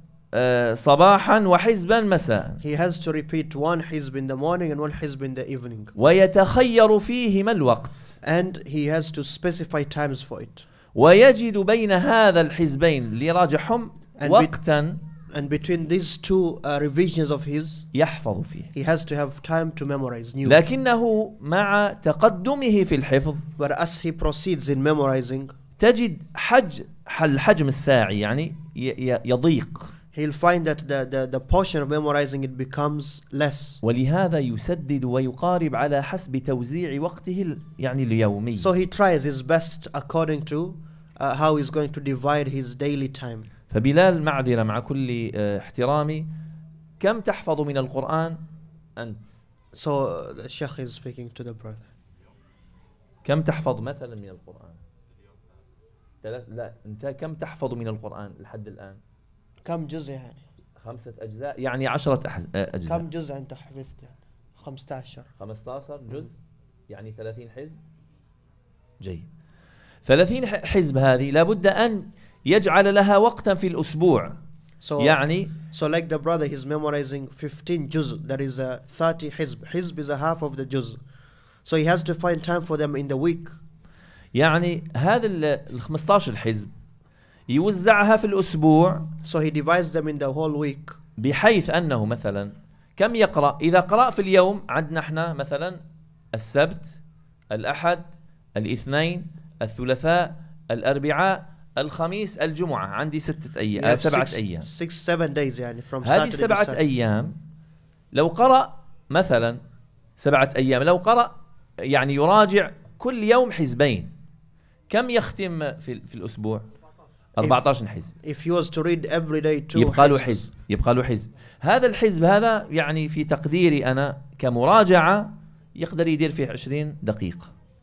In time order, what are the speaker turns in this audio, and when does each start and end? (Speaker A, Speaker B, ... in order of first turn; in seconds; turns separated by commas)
Speaker A: 0.3-2.6, Speaker B: 2.6-5.9, Speaker A: 6.0-8.1, Speaker B: 8.2-10.6, Speaker A: 10.9-15.0, Speaker B: 14.2-14.6, Speaker B: 15.3-17.9, Speaker A: 17.9-18.7, Speaker B: 18.7-20.6, Speaker A: 20.4-23.4, Speaker B: 23.6-25.5, Speaker A: 25.8-29.9, Speaker B: 30.1-33.8, Speaker A: 33.8-38.7, Speaker B: 38.6-43.5, Speaker A: 43.7-46.3, Speaker A: 47.0-48.4, Speaker A: 49.0-49.3, Speaker B: 49.7-51.9, Speaker A: 53.2-54.8, Speaker A: 56.2-59.0, Speaker B: 59.6-60.4, Speaker A: 60.8-63.0, Speaker B: 62.9-65.3, Speaker A: 65.4-66.3, Speaker A: 66.9-67.8, Speaker A: 69.0-69.3, Speaker A: 70.1-74.4, Speaker B: 74.8-81.0, Speaker A: 75.0-75.5, Speaker B: 81.7-83.6, Speaker A: 84.3-86.7, Speaker A: 87.5-89.1, Speaker B: 89.2-91.0, Speaker A: 91.2-95.8, Speaker A: 96.3-97.0, Speaker A: 97.5-104.7, Speaker B: 103.8-106.8, Speaker A: 106.0-107.4, Speaker A: 108.1-109.6, Speaker A: 110.2-111.3, Speaker A: 111.8-114.1, Speaker A: 114.9-116.7, Speaker A: 117.4-118.1, Speaker B: 117.4-117.7, Speaker B: 118.2-120.4, Speaker A: 119.8-127.5